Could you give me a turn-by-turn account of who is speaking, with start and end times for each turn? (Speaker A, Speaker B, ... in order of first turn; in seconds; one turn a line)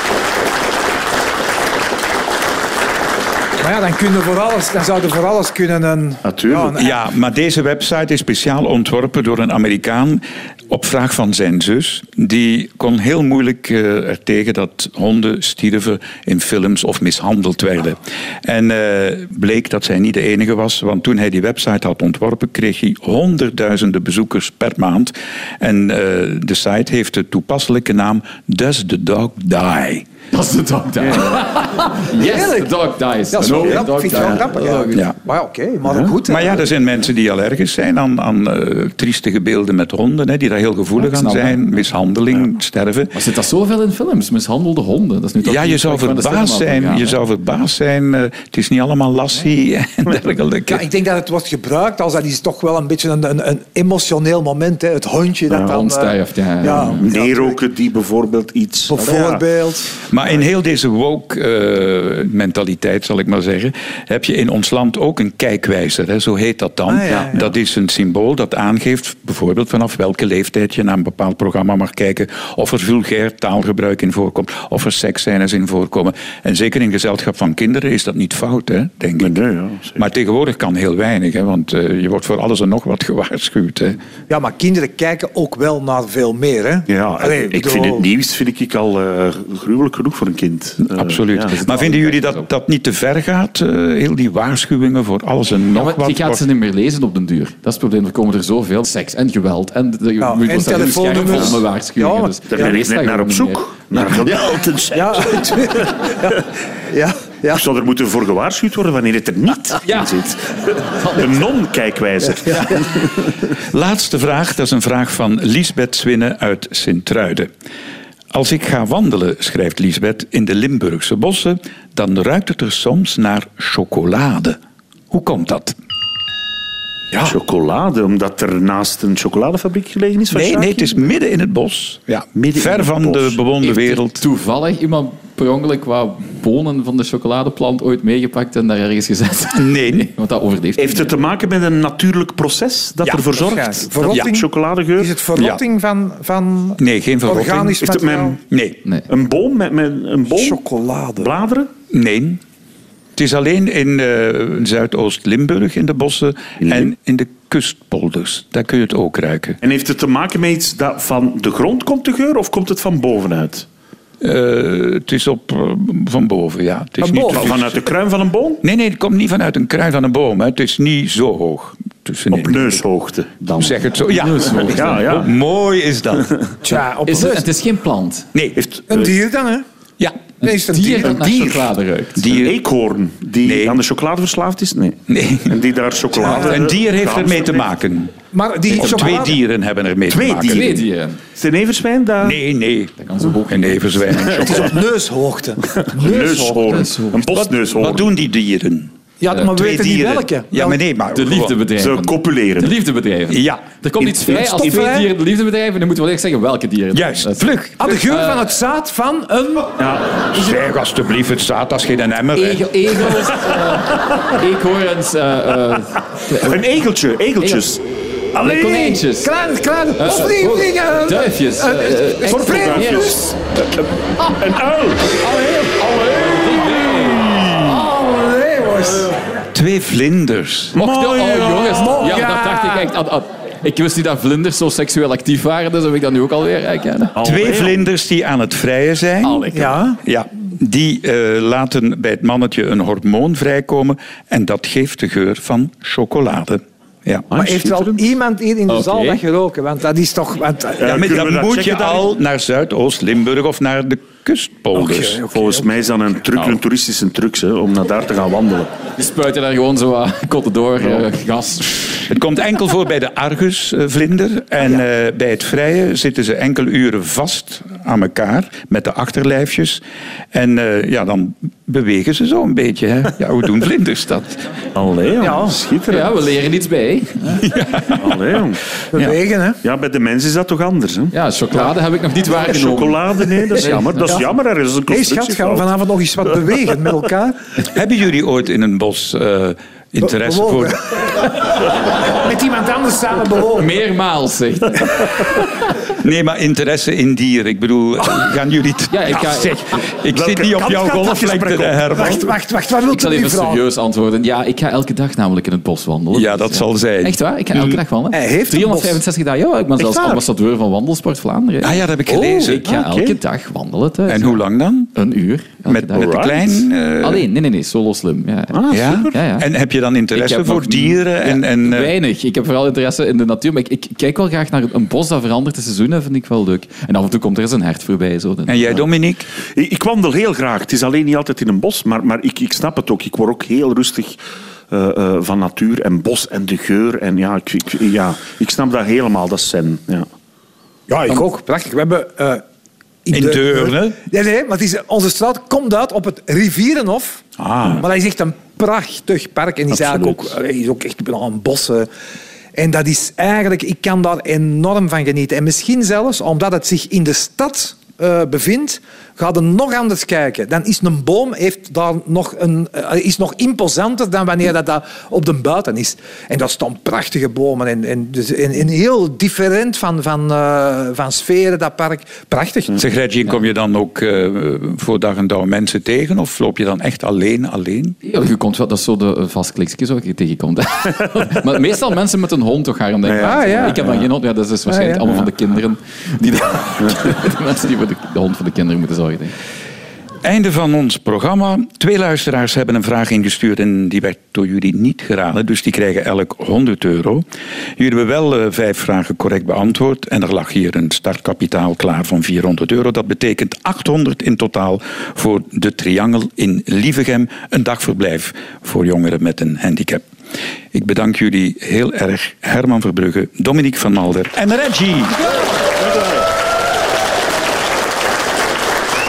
Speaker A: 3.6-6.9
Speaker B: 6.2-6.8
Speaker C: 6.8-30.1
Speaker D: 30.3-35.0
Speaker A: 32.1-32.7
Speaker A: 33.3-36.6
Speaker B: 35.9-36.1
Speaker C: 36.2-43.1
Speaker D: 41.0-41.7
Speaker D: 43.1-47.2
Speaker C: 45.4-50.9
Speaker A: 50.7-57.6
Speaker D: 55.5-57.0
Speaker B: 56.6-59.4
Speaker A: 58.9-60.0
Speaker C: 60.1-79.4
Speaker A: 66.9-67.4
Speaker B: 79.2-80.0
Speaker C: 79.9-84.0
Speaker A: 84.3-88.1
Speaker B: 86.9-91.5
Speaker C: 90.8-96.4
Speaker D: 91.4-92.5
Speaker D: 95.7-104.6
Speaker A: 100.2-102.7
Speaker B: 101.2-101.5
Speaker B: 102.5-105.8
Speaker A: 104.9-106.4
Speaker A: 106.9-107.6
Speaker B: 107.5-110.4
Speaker D: 109.8-110.2
Speaker D: 110.9-111.5
Speaker B: 111.0-113.4
Speaker A: 112.5-112.8
Speaker D: 112.5-112.8
Speaker C: 113.7-117.5
Speaker C: 118.3-124.6
Speaker C: 125.1-125.8
Speaker B: 127.1-130.9
Speaker C: 130.3-134.2
Speaker B: 132.5-133.4
Speaker D: 133.6-141.1
Speaker C: 139.5-140.1
Speaker B: 140.8-145.2
Speaker A: 143.0-148.4
Speaker C: 145.3-145.6
Speaker C: 146.8-147.8
Speaker B: 147.8-148.4
Speaker C: 148.5-148.8
Speaker B: 149.1-150.6
Speaker A: 150.3-151.3
Speaker B: 151.2-151.7
Speaker C: 151.9-152.4
Speaker C: 153.2-159.6
Speaker B: 156.6-156.9
Speaker B: 159.6-163.7
Speaker C: 164.2-167.8
Speaker A: 167.0-167.5
Speaker B: 167.3-168.6
Speaker C: 168.6-172.8
Speaker B: 172.3-173.8
Speaker C: 173.6-176.3
Speaker D: 174.1-175.2
Speaker B: 174.6-175.3
Speaker A: 176.6-177.5
Speaker D: 177.0-178.3
Speaker C: 178.3-178.6
Speaker B: 178.6-179.1
Speaker A: 178.9-179.6
Speaker D: 180.4-182.2
Speaker A: 180.4-181.2
Speaker B: 181.0-181.7
Speaker C: 182.2-182.6
Speaker B: 182.2-187.7
Speaker C: 183.4-183.8
Speaker C: 185.1-185.6
Speaker A: 186.2-186.5
Speaker C: 186.2-188.1
Speaker A: 188.3-189.4
Speaker D: 188.7-189.3
Speaker C: 188.7-190.8
Speaker B: 190.1-192.4
Speaker D: 190.4-191.2
Speaker C: 192.2-192.9
Speaker D: 193.0-194.4
Speaker C: 193.5-194.8
Speaker A: 194.5-196.7
Speaker B: 195.8-198.1
Speaker D: 196.7-197.2
Speaker C: 197.5-201.6
Speaker A: 199.2-200.8
Speaker D: 201.1-208.5
Speaker B: 201.8-202.8
Speaker C: 203.3-203.6
Speaker B: 204.0-204.9
Speaker A: 204.3-205.1
Speaker C: 206.9-207.8
Speaker A: 207.8-209.7
Speaker B: 209.8-210.2
Speaker C: 210.3-212.7
Speaker D: 212.3-216.6
Speaker B: 216.3-217.8
Speaker D: 217.4-217.6
Speaker D: 218.4-219.3
Speaker A: 218.4-223.3
Speaker D: 220.0-223.2
Speaker B: 222.3-225.2
Speaker D: 225.2-227.5
Speaker A: 227.5-229.2
Speaker C: 229.5-230.8
Speaker B: 230.7-232.1
Speaker D: 230.7-237.1
Speaker A: 231.8-232.9
Speaker B: 237.1-237.8
Speaker C: 237.2-247.3
Speaker D: 239.2-239.8
Speaker A: 239.5-240.0
Speaker B: 247.3-248.1
Speaker A: 247.3-250.9
Speaker D: 248.7-249.2
Speaker B: 250.8-252.1
Speaker C: 250.9-255.2
Speaker A: 254.7-255.7
Speaker B: 255.3-258.7
Speaker D: 259.0-262.1
Speaker C: 262.1-269.8
Speaker C: 270.3-274.4
Speaker B: 274.7-276.2
Speaker A: 275.2-275.6
Speaker D: 275.9-277.5
Speaker C: 277.4-278.2
Speaker B: 278.0-278.6
Speaker A: 278.9-279.6
Speaker B: 279.6-281.1
Speaker D: 281.1-284.1
Speaker B: 282.3-285.7
Speaker A: 284.9-287.4
Speaker C: 287.7-290.8
Speaker A: 290.0-291.3
Speaker A: 292.1-293.7
Speaker D: 293.6-295.1
Speaker C: 296.0-302.3
Speaker D: 298.9-299.5
Speaker B: 300.1-302.2
Speaker A: 301.9-303.6
Speaker D: 302.9-311.8
Speaker C: 306.1-307.8
Speaker A: 308.1-309.0
Speaker C: 311.6-312.6
Speaker A: 312.1-312.5
Speaker D: 312.4-316.1
Speaker B: 312.6-313.1
Speaker C: 314.1-314.9
Speaker C: 315.6-317.2
Speaker B: 315.9-316.6
Speaker D: 317.0-319.5
Speaker B: 318.5-319.1
Speaker C: 318.7-321.9
Speaker D: 320.1-328.8
Speaker C: 328.5-329.3
Speaker B: 329.5-334.2
Speaker B: 334.7-340.1
Speaker A: 340.9-342.4
Speaker A: 343.0-351.9
Speaker C: 343.1-344.0
Speaker C: 347.4-347.8
Speaker B: 349.7-350.3
Speaker A: 352.5-372.8
Speaker C: 372.8-378.0
Speaker D: 378.0-389.3
Speaker B: 383.0-384.0
Speaker A: 383.2-383.8
Speaker A: 384.7-385.1
Speaker C: 390.2-397.2
Speaker C: 397.8-410.0
Speaker C: 410.7-415.2